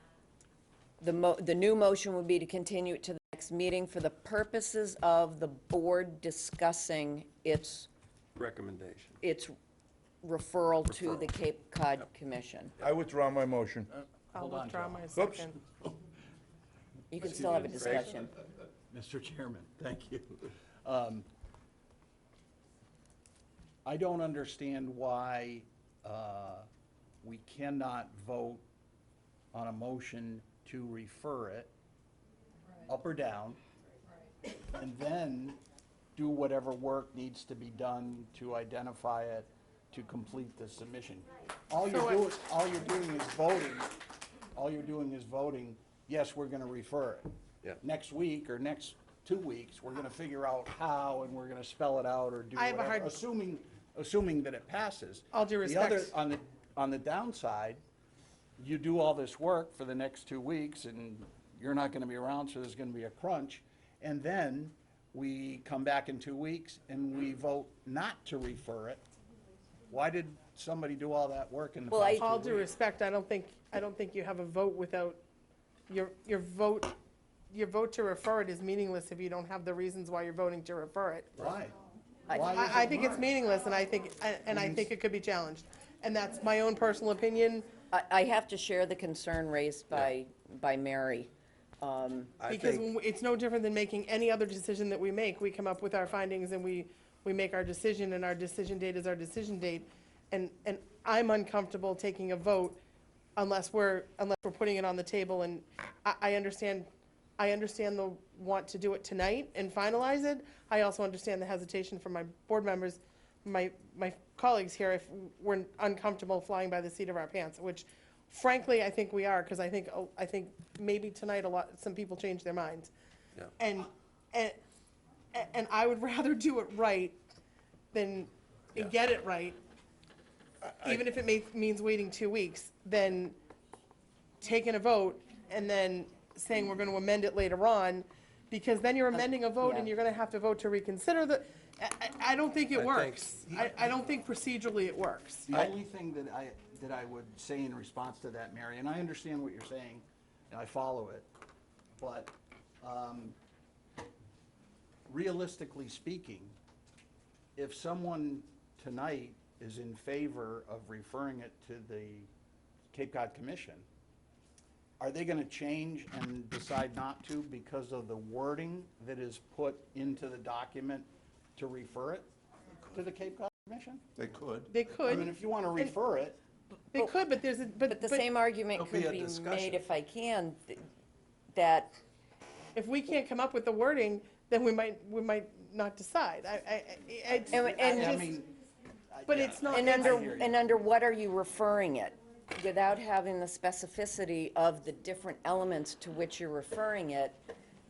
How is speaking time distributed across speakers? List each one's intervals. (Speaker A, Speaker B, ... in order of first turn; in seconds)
Speaker A: 1.0-7.9, 9.2-9.5, 10.2-12.7, 17.1-18.3, 71.9-72.3, 82.3-83.1, 87.9-92.3, 139.1-139.9, 177.9-180.8, 181.5-182.0, 187.5-188.2, 189.7-197.4
Speaker B: 8.3-9.2, 10.9-11.2, 17.7-18.1, 92.4-92.8, 130.6-131.0, 142.7-143.4, 178.7-179.8
Speaker C: 12.8-13.9, 15.1-15.4, 174.2-174.7
Speaker D: 14.3-15.6, 41.9-42.3, 52.5-53.2, 55.3-56.1, 72.2-75.2, 75.9-77.0, 77.5-81.5, 82.4-87.7, 92.5-102.8, 103.3-122.9, 123.6-124.6, 125.3-127.2, 127.9-129.6, 130.8-133.4, 134.4-145.5, 174.7-175.9, 176.9-178.2, 182.7-188.3, 189.3-190.4
Speaker E: 14.3-15.3, 18.9-21.2, 23.9-26.7, 27.2-28.6, 29.5-31.7, 32.8-33.6, 34.6-35.6, 36.1-44.0, 44.5-57.8, 58.6-69.0, 69.9-72.7, 81.4-81.8, 82.3-83.2, 84.5-84.8, 145.5-151.3, 152.0-153.3, 155.1-156.5, 157.6-162.3, 162.9-163.8, 165.0-172.3, 172.9-174.0, 175.0-176.4, 187.6-188.5, 189.1-190.6